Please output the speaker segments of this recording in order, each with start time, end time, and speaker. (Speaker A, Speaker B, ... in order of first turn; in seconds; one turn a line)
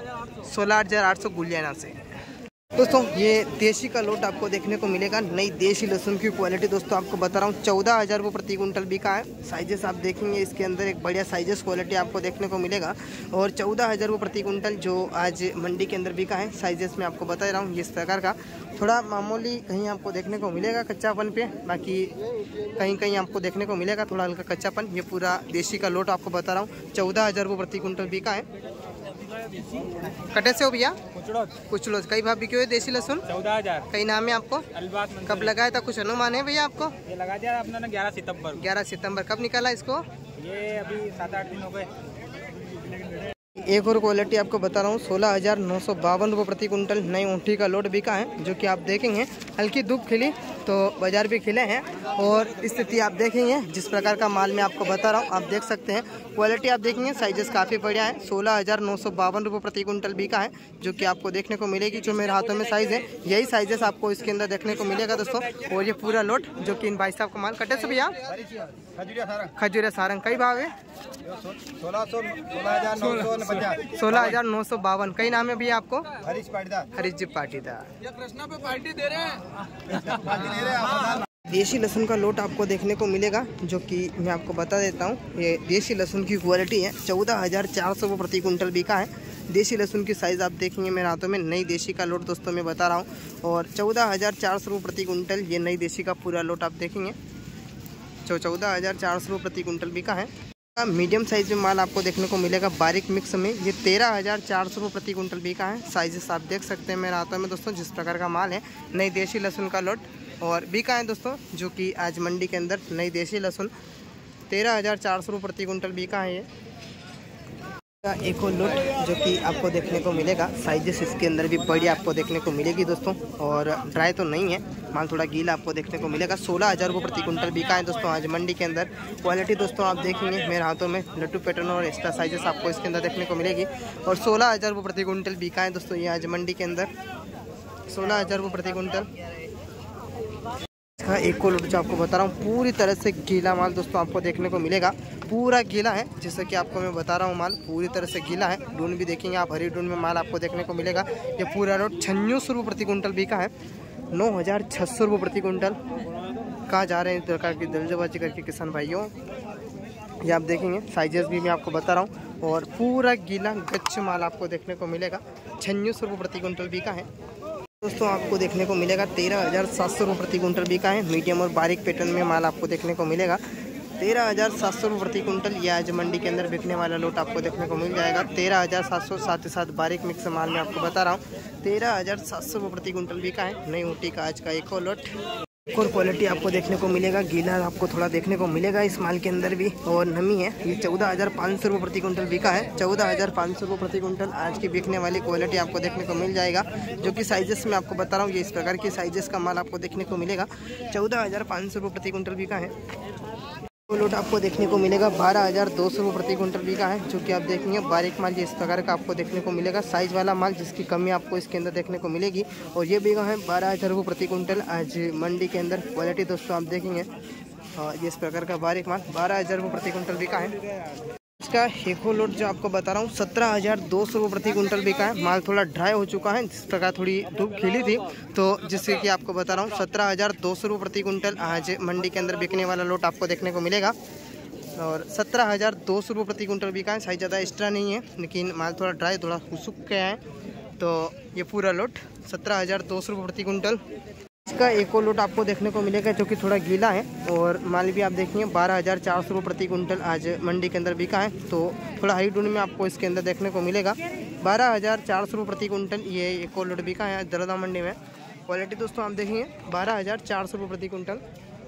Speaker A: 0.4-2.1
Speaker A: 2.7-22.2
Speaker A: 22.8-28.5
Speaker A: 30.2-37.1
Speaker B: 33.3-33.8
Speaker B: 34.9-35.2
Speaker B: 37.1-38.5
Speaker A: 38.4-40.0
Speaker B: 40.4-41.9
Speaker A: 43.6-68.2
Speaker B: 69.0-69.3
Speaker A: 69.5-70.7
Speaker B: 71.5-73.7
Speaker A: 73.5-77.9
Speaker B: 76.4-76.8
Speaker A: 80.6-80.8
Speaker A: 81.4-97.2
Speaker A: 98.2-113.7
Speaker A: 114.5-116.5
Speaker A: 118.0-136.9
Speaker A: 137.9-139.1
Speaker A: 141.0-153.5
Speaker A: 154.1-155.8
Speaker A: 156.7-159.1
Speaker A: 160.2-167.1
Speaker A: 167.8-173.4
Speaker A: 174.0-185.1
Speaker A: 185.7-202.7
Speaker A: 203.9-217.1
Speaker A: 217.8-220.6
Speaker A: 221.4-233.9
Speaker A: 234.7-240.2
Speaker A: 240.8-243.8
Speaker A: 244.4-261.2